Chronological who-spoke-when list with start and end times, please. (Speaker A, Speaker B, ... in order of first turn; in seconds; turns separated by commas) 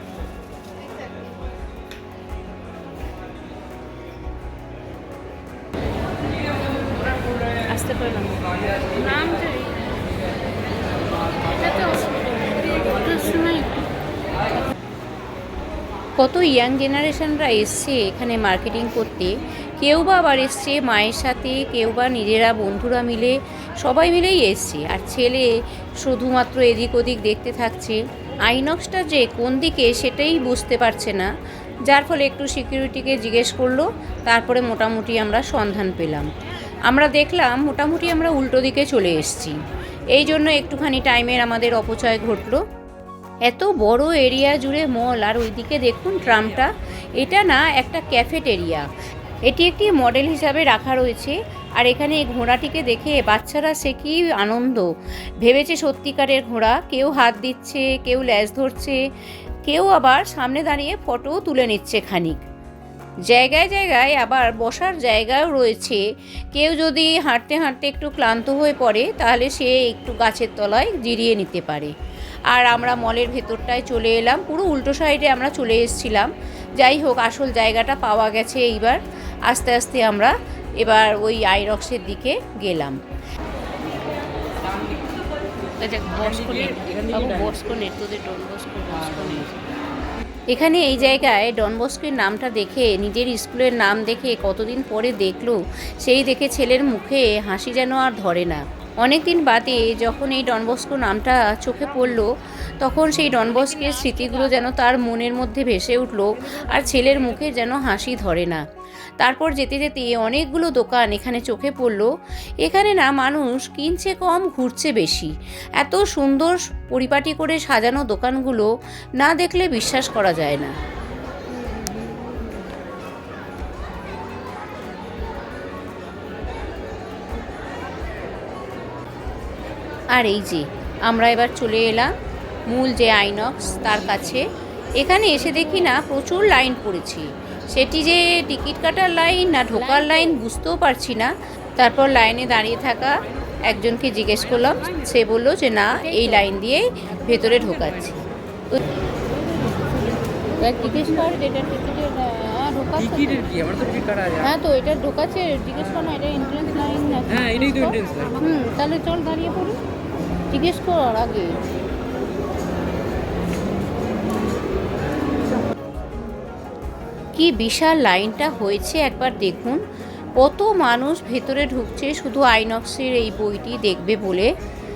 Speaker A: 7.7-9.8, Speaker A: 11.5-12.1, Speaker A: 13.0-13.7, Speaker A: 16.2-25.5, Speaker A: 26.0-31.3, Speaker A: 31.9-36.3, Speaker A: 36.9-39.5, Speaker A: 40.1-42.6, Speaker A: 43.5-48.9, Speaker A: 49.5-54.9, Speaker A: 55.4-59.0, Speaker A: 59.7-62.4, Speaker A: 63.3-66.0, Speaker A: 66.5-71.9, Speaker A: 72.5-83.0, Speaker B: 84.7-85.0, Speaker A: 85.8-89.5, Speaker B: 86.1-87.5, Speaker A: 90.5-108.6, Speaker A: 109.2-112.1, Speaker A: 112.6-120.8, Speaker A: 130.2-132.1, Speaker A: 132.7-134.4, Speaker A: 135.0-148.2, Speaker A: 150.5-153.5, Speaker B: 153.0-154.6, Speaker A: 154.4-159.8, Speaker B: 157.3-158.5, Speaker A: 160.5-161.6, Speaker A: 167.3-169.8, Speaker A: 170.4-174.5